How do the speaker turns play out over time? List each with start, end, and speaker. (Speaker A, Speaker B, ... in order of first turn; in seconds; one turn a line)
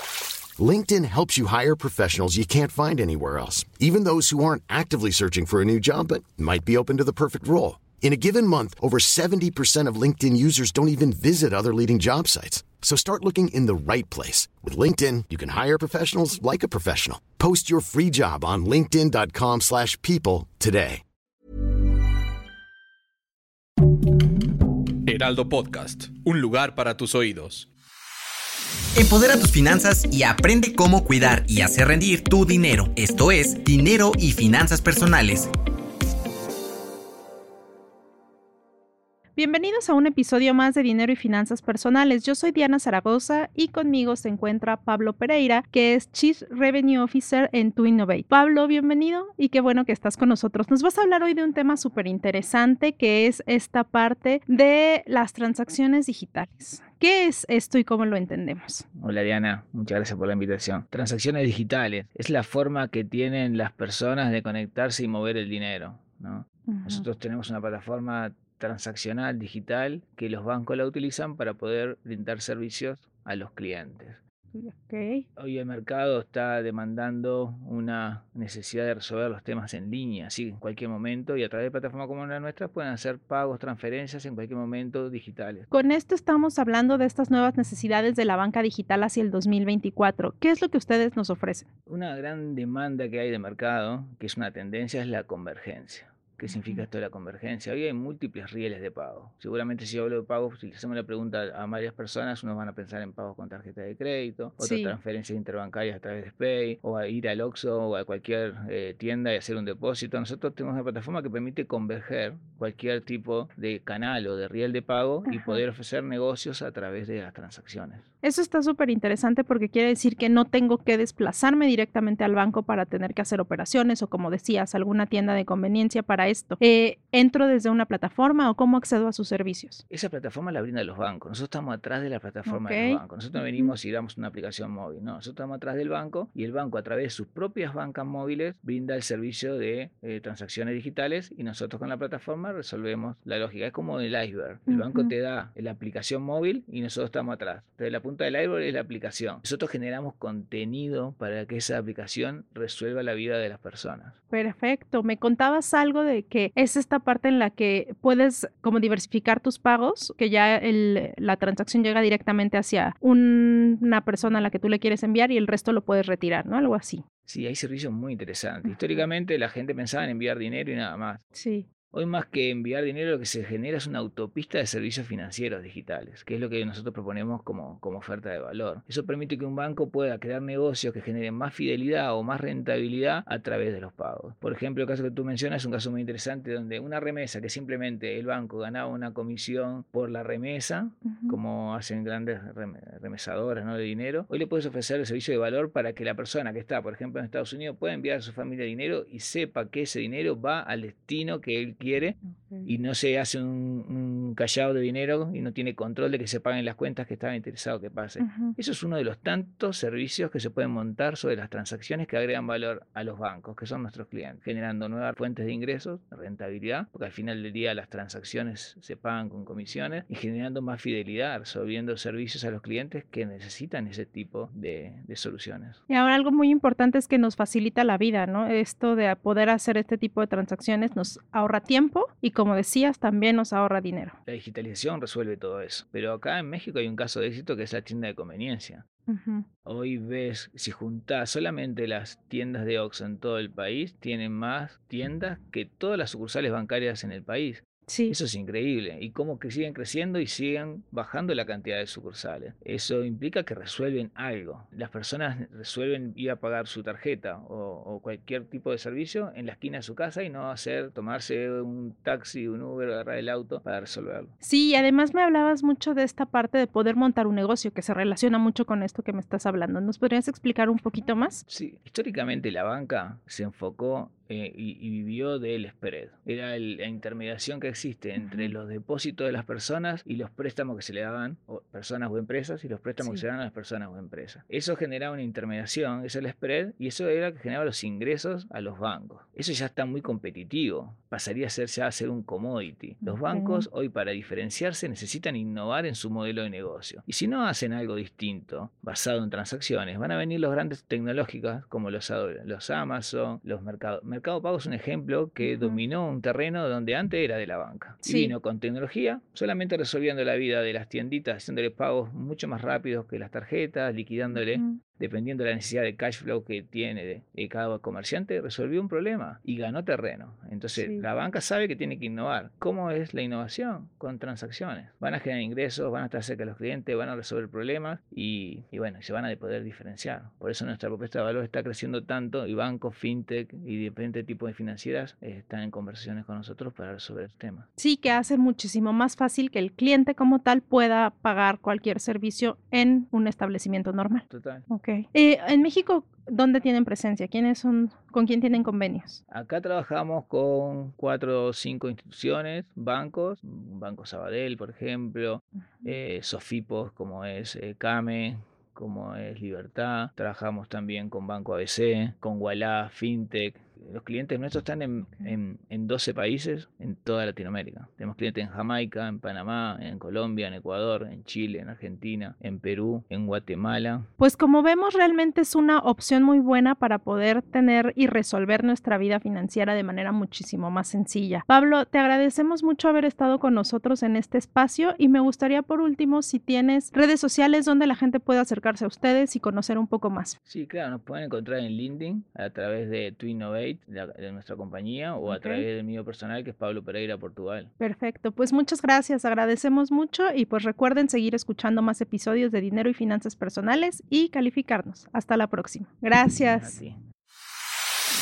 Speaker A: 0.6-21.0
Speaker B: 25.1-27.7
Speaker C: 29.0-35.5
Speaker D: 39.4-58.9
Speaker E: 59.0-74.2
Speaker D: 66.7-67.0
Speaker D: 74.5-75.2
Speaker E: 75.4-85.7
Speaker D: 85.7-91.7
Speaker E: 91.9-118.1
Speaker D: 96.5-96.8
Speaker D: 104.6-105.0
Speaker D: 115.3-115.6
Speaker D: 118.2-129.8
Speaker E: 129.9-154.2
Speaker D: 132.5-133.7
Speaker D: 144.7-145.1
Speaker D: 154.3-167.0
Speaker E: 167.3-171.2
Speaker D: 171.3-171.7
Speaker E: 171.9-225.8
Speaker D: 191.1-191.4
Speaker D: 202.3-202.7
Speaker D: 208.2-208.6
Speaker D: 225.9-234.2
Speaker E: 234.3-238.8
Speaker D: 239.1-239.5
Speaker E: 239.7-264.3
Speaker D: 247.9-248.2
Speaker D: 264.4-271.4
Speaker E: 271.5-337.7
Speaker D: 278.2-278.5
Speaker D: 283.0-283.2
Speaker D: 293.0-293.7
Speaker D: 305.4-305.8
Speaker D: 308.0-308.4
Speaker D: 314.3-314.8
Speaker D: 320.8-321.1
Speaker D: 337.8-349.2
Speaker E: 344.3-344.7
Speaker E: 349.3-374.1
Speaker D: 365.0-365.3
Speaker D: 374.2-390.4
Speaker E: 390.5-397.7
Speaker D: 395.2-395.7
Speaker D: 397.8-406.8
Speaker E: 406.5-407.0